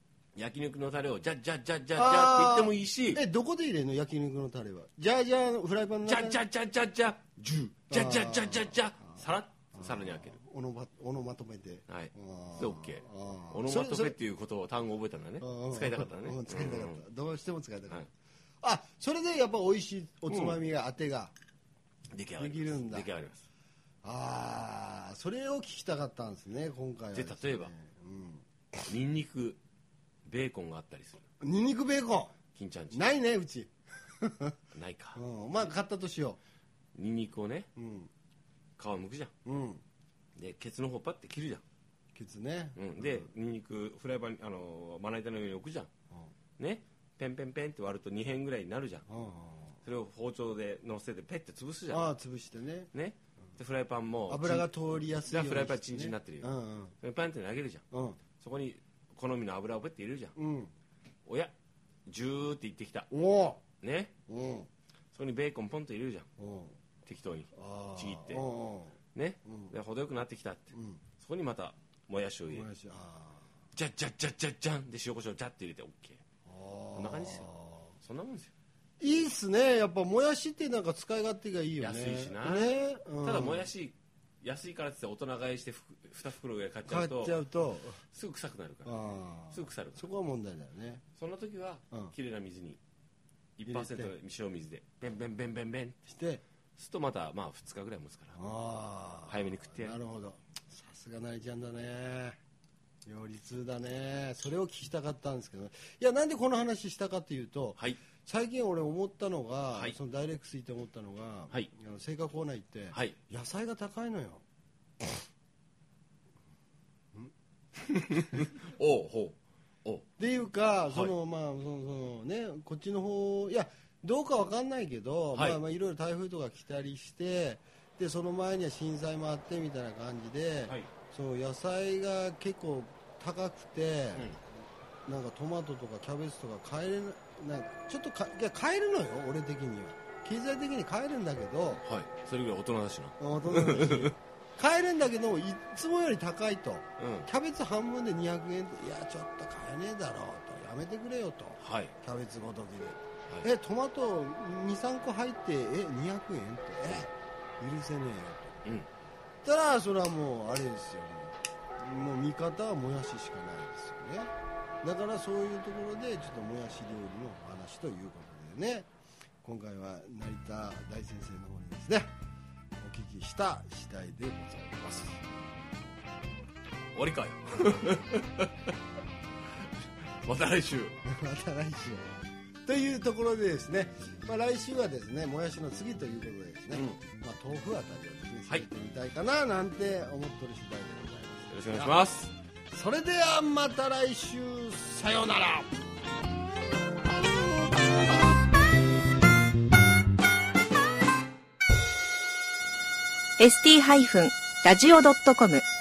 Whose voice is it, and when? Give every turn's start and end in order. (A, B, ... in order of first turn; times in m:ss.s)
0:00.4-0:03.2 A
0:02.0-0:06.4 B
0:06.0-0:10.4 A
0:07.6-0:08.9 B
0:09.8-0:14.2 B
0:11.9-0:17.0 A
0:15.4-0:18.0 B
0:18.6-0:21.3 B
0:20.3-0:20.6 A
0:22.1-0:23.4 A
0:22.4-0:23.1 B
0:24.0-0:28.8 B
0:27.1-0:27.7 A
0:28.9-0:29.6 A
0:30.3-0:31.2 A
0:31.4-0:32.3 B
0:32.5-0:33.1 A
0:32.9-0:33.7 B
0:34.2-0:34.6 B
0:34.7-0:35.2 A
0:35.2-0:36.4 B
0:37.0-0:37.7 A
0:37.8-0:38.1 B
0:38.8-0:39.3 A
0:39.5-0:39.8 B
0:40.4-0:41.6 A
0:42.2-0:43.3 B
0:42.8-0:45.9 A
0:46.6-0:49.1 A
0:49.1-0:49.8 B
0:49.8-0:52.1 A
0:51.9-0:52.9 B
0:52.9-0:54.7 A
0:54.3-0:56.9 B
0:55.2-0:57.8 A
0:57.9-0:58.2 B
0:58.4-1:00.4 A
1:00.4-1:00.7 B
1:01.3-1:01.5 A
1:02.1-1:03.1 A
1:03.1-1:03.6 B
1:03.8-1:04.1 A
1:04.3-1:04.7 B
1:05.1-1:06.3 A
1:06.4-1:06.8 B
1:07.0-1:08.4 A
1:07.6-1:09.7 B
1:09.1-1:12.7 A
1:10.7-1:11.0 B
1:12.5-1:13.4 B
1:13.7-1:16.2 A
1:16.5-1:17.9 B
1:17.0-1:17.4 A
1:18.0-1:18.5 A
1:19.0-1:23.7 B
1:21.8-1:27.4 A
1:26.9-1:28.0 B
1:28.1-1:29.0 A
1:28.8-1:31.0 B
1:29.5-1:30.0 A
1:31.2-1:32.8 A
1:33.6-1:36.0 A
1:33.7-1:34.1 B
1:36.1-1:36.4 B
1:36.8-1:38.4 A
1:38.4-1:42.4 B
1:39.3-1:40.0 A
1:43.1-1:54.4 B
1:52.9-1:53.2 A
1:57.9-2:00.1 A
2:00.2-2:14.3 B
2:00.9-2:01.1 A
2:05.3-2:05.6 A
2:15.1-2:21.8 B
2:21.8-2:24.1 A
2:23.2-2:38.6 B
2:27.0-2:27.3 A
2:31.6-2:32.0 A
2:39.4-2:44.3 B
2:44.8-2:48.9 B
2:49.4-2:52.1 B
2:52.8-2:55.3 B
2:57.0-2:58.5 A
3:00.2-3:01.0 A
3:01.0-3:12.0 B
3:06.7-3:07.0 A
3:11.5-3:12.3 A
3:12.7-3:15.7 B
3:23.4-3:25.6 C